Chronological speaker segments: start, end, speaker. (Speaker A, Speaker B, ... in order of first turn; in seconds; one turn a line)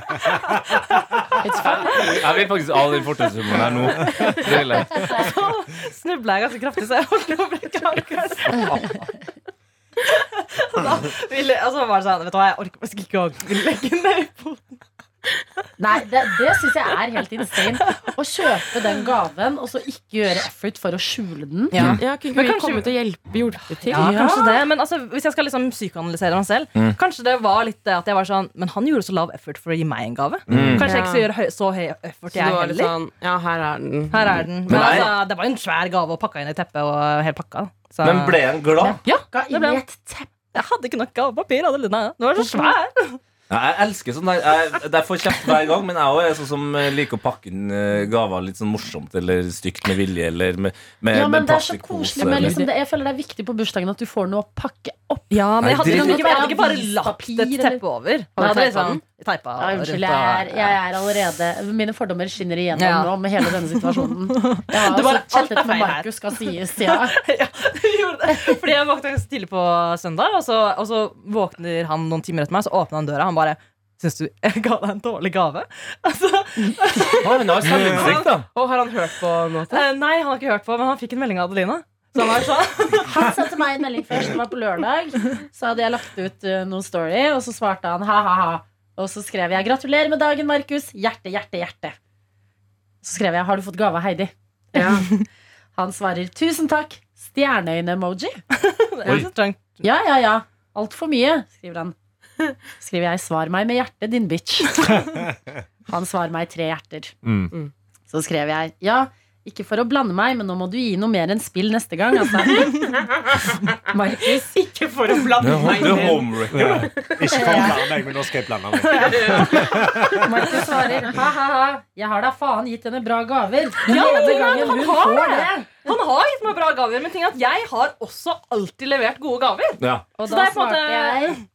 Speaker A: 0.2-2.0
Speaker B: 1.4-2.2
Speaker C: 1.8-5.2
Speaker A: 3.9-9.3
Speaker B: 4.9-5.3
Speaker C: 8.5-8.9
Speaker A: 10.0-14.8
Speaker B: 15.8-21.9
Speaker A: 16.5-18.1
Speaker A: 21.7-22.9
Speaker C: 21.8-22.0
Speaker D: 21.9-24.1
Speaker A: 23.7-32.9
Speaker B: 23.9-24.6
Speaker E: 30.5-30.8
Speaker C: 30.5-30.9
Speaker D: 30.8-31.3
Speaker D: 32.3-34.3
Speaker A: 34.1-38.6
Speaker C: 34.7-35.1
Speaker C: 38.0-39.0
Speaker B: 38.8-40.3
Speaker A: 39.1-39.8
Speaker A: 40.5-43.2
Speaker B: 42.4-42.7
Speaker C: 43.5-52.6
Speaker A: 45.3-45.6
Speaker B: 51.1-57.8
Speaker D: 52.2-52.6
Speaker A: 55.3-60.8
Speaker C: 55.6-56.3
Speaker D: 58.4-59.0
Speaker B: 59.6-67.1
Speaker A: 62.7-78.0
Speaker C: 77.2-78.5
Speaker D: 77.9-79.8
Speaker A: 79.6-83.2
Speaker B: 83.0-92.0
Speaker B: 93.0-98.4
Speaker D: 94.8-95.1
Speaker A: 98.5-99.8
Speaker B: 99.8-102.0
Speaker B: 102.8-104.9
Speaker B: 105.9-107.1
Speaker E: 107.2-107.5
Speaker B: 108.1-112.9
Speaker B: 113.9-115.8
Speaker D: 114.2-117.5
Speaker C: 115.4-116.7
Speaker E: 116.5-120.2
Speaker B: 117.3-118.1
Speaker A: 118.8-119.7
Speaker D: 119.0-120.2
Speaker B: 119.6-125.7
Speaker A: 123.8-131.4
Speaker C: 129.8-130.1
Speaker B: 130.2-131.4